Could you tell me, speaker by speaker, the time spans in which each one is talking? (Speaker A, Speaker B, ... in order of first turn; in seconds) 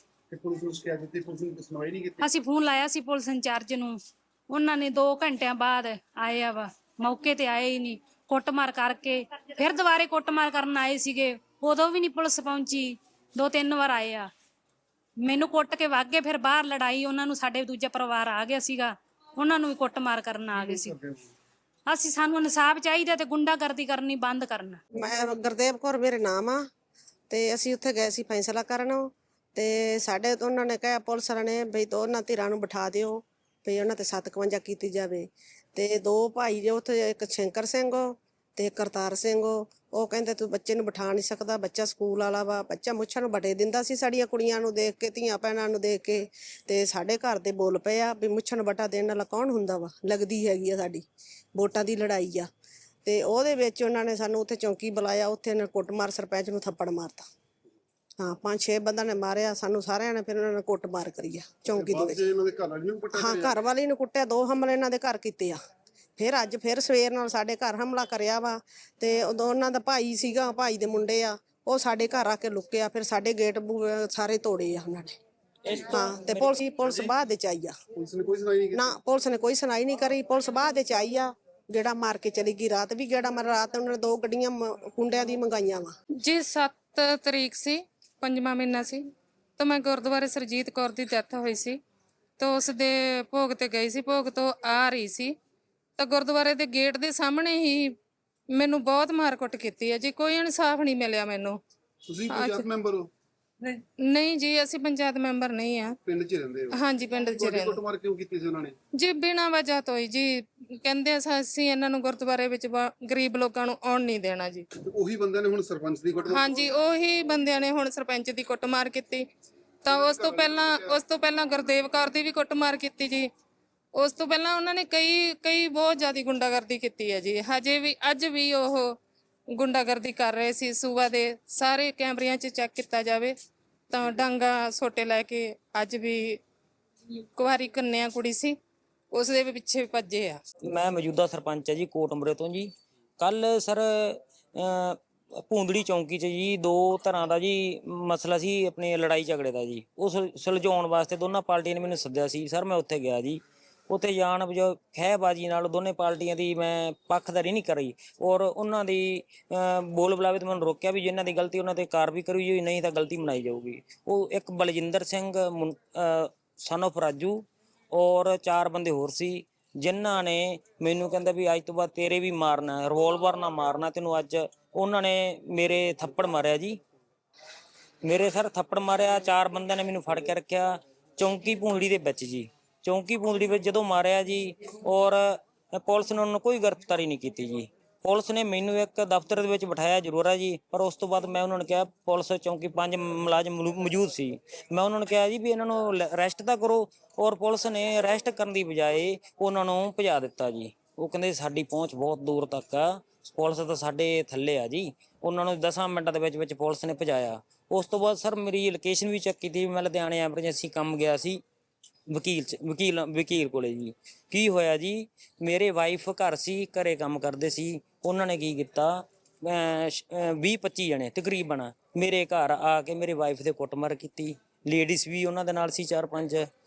Speaker A: 0.3-2.2, 20.6-21.3, 61.7-63.6, 76.8-77.1, 77.9-78.9, 102.0-103.1, 106.0-106.8, 107.3-108.8, 114.8-116.7, 119.9-121.0
Speaker B: 2.2-14.3, 15.2-21.0, 21.9-24.8
Speaker C: 24.9-26.6, 27.3-51.0, 51.5-52.5, 53.0-57.2, 58.2-62.2, 63.1-65.6, 66.2-75.1, 75.8-77.8, 78.7-85.9
Speaker D: 75.6-76.6, 140.7-176.8, 178.0-211.4, 212.1-226.5
Speaker E: 86.2-91.8, 92.4-95.3, 96.0-97.9, 98.5-101.6, 102.3-102.7, 103.6-106.0, 106.7-107.8, 108.9-114.7, 116.2-119.3, 119.8-123.3, 123.9-129.0, 129.5-133.3, 133.9-136.4, 137.3-138.6, 139.1-140.4